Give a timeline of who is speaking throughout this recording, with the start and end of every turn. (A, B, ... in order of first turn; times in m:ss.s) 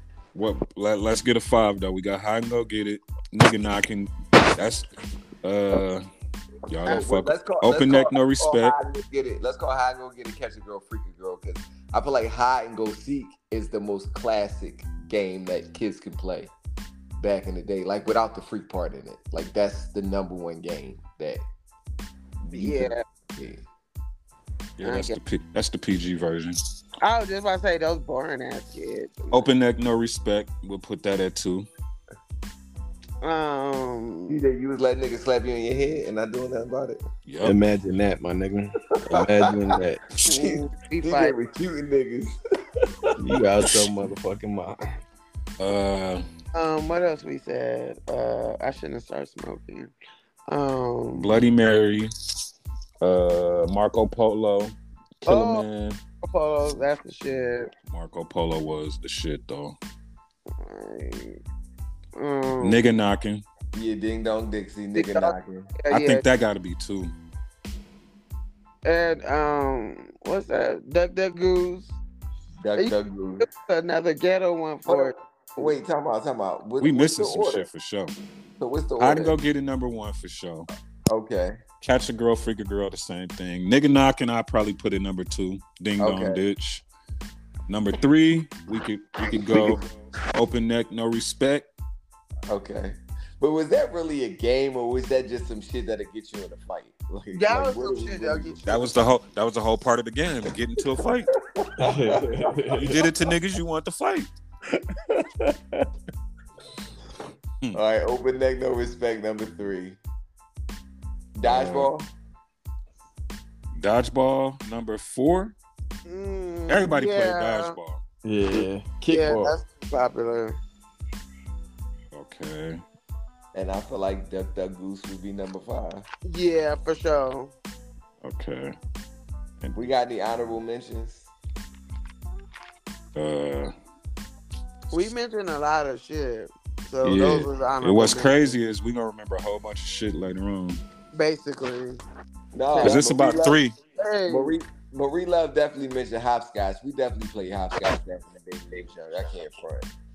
0:00.4-0:04.9 A
0:05.4-0:06.0 A
0:06.7-0:08.8 A
0:06.8-0:16.5 B
0:17.2-0:21.4 B
0:22.4-0:23.6 B
0:22.5-0:23.0 C
0:24.8-0:26.6 A
0:24.8-0:25.2 C
0:27.0-0:29.5 C
0:29.3-0:31.7 A
0:33.2-0:34.4 C
0:34.3-0:37.0 B
0:37.3-0:37.6 A
0:37.4-0:40.0 D
0:39.1-0:39.7 B
0:40.2-0:42.4 B
0:40.2-0:41.4 C
0:43.2-0:44.9 D
0:45.6-0:46.3 A
0:46.5-0:49.9 C
0:50.5-0:51.4 C
0:51.2-0:52.1 A
0:53.0-0:56.0 A
0:55.3-0:55.7 C
0:56.2-0:57.7 C
0:57.9-0:59.8 A
1:00.6-1:01.4 C
1:02.2-1:02.8 C
1:02.6-1:03.4 A
1:03.7-1:05.7 B
1:05.0-1:06.2 C
1:05.9-1:07.1 A
1:08.8-1:12.0 C
1:12.6-1:13.5 B
1:12.8-1:15.7 C
1:14.9-1:17.6 B
1:16.8-1:18.2 A
1:18.6-1:19.4 B
1:19.0-1:20.7 A
1:21.1-1:21.6 B
1:21.8-1:26.8 A
1:26.0-1:26.4 B
1:27.7-1:31.7 A
1:29.3-1:29.8 B
1:32.5-1:38.6 B
1:37.3-1:38.9 C
1:38.7-1:41.3 A
1:41.6-1:42.8 B
1:41.8-1:43.0 D
1:42.7-1:44.3 A
1:45.1-1:45.6 D
1:47.7-1:50.0 B
1:51.4-1:52.1 B
1:51.4-1:51.9 A
1:53.8-1:55.6 A
1:56.1-1:57.8 C
1:56.7-1:58.0 A
1:58.2-1:59.6 D
1:59.1-2:00.6 C
2:02.1-2:02.8 A
2:03.5-2:06.1 B
2:06.2-2:07.5 C
2:08.2-2:08.8 A
2:09.8-2:11.3 B
2:13.2-2:13.7 A
2:14.9-2:18.5 C
2:17.0-2:20.8 A
2:21.1-2:22.0 C
2:22.5-2:23.6 B
2:22.7-2:23.0 C
2:22.8-2:23.8 A
2:24.0-2:24.6 C
2:24.3-2:29.9 B